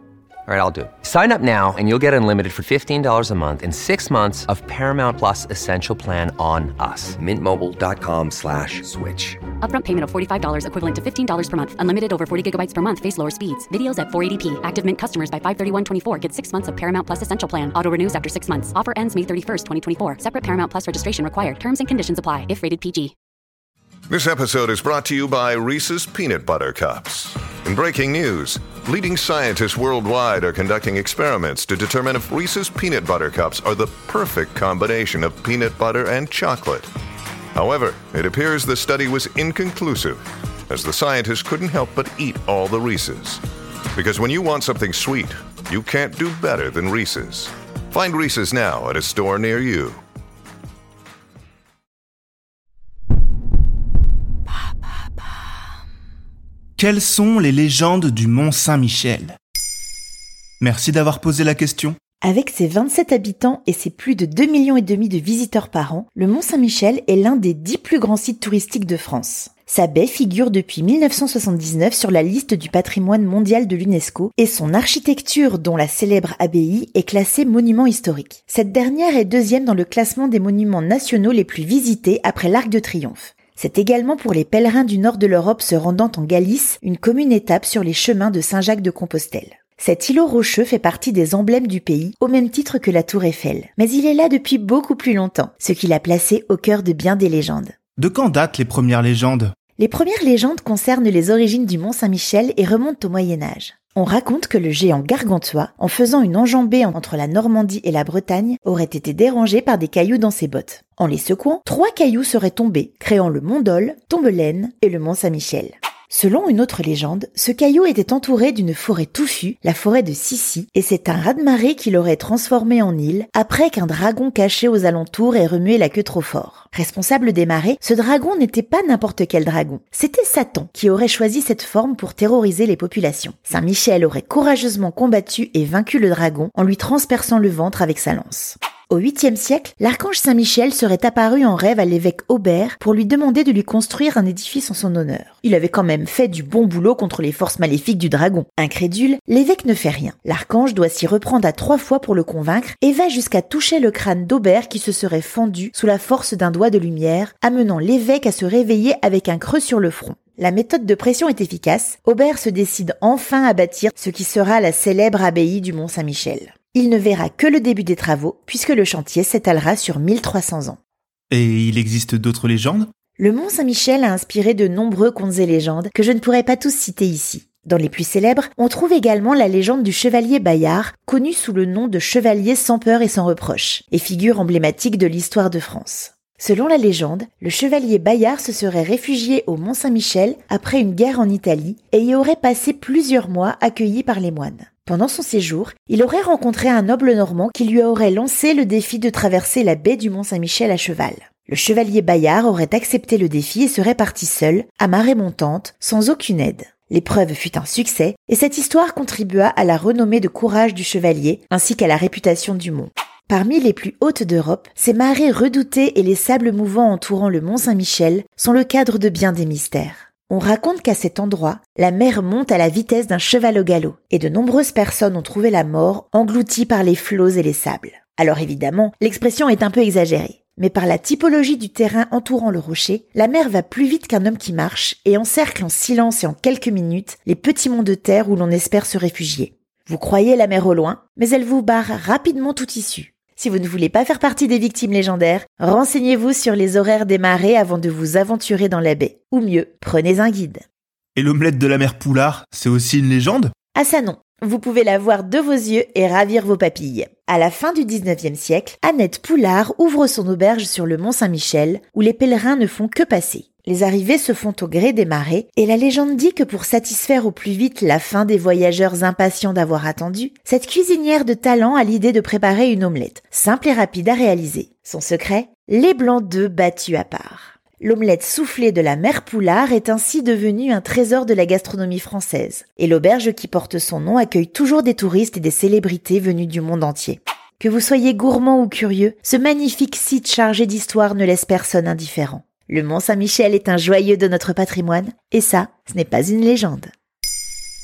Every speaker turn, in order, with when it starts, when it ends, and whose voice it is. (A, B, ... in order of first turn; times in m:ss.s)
0:00.4-0:09.1 A
0:09.6-0:23.1 B
0:24.1-0:36.9 C
0:37.6-0:43.4 C
0:43.9-0:50.0 C
0:56.8-0:59.4 D
1:00.6-1:02.0 D
1:02.2-1:37.7 E
1:38.0-1:39.5 D
1:39.8-2:50.8 E
2:51.3-2:52.9 D
2:53.2-4:10.6 E
4:11.2-4:13.5 D
4:13.7-4:56.9 E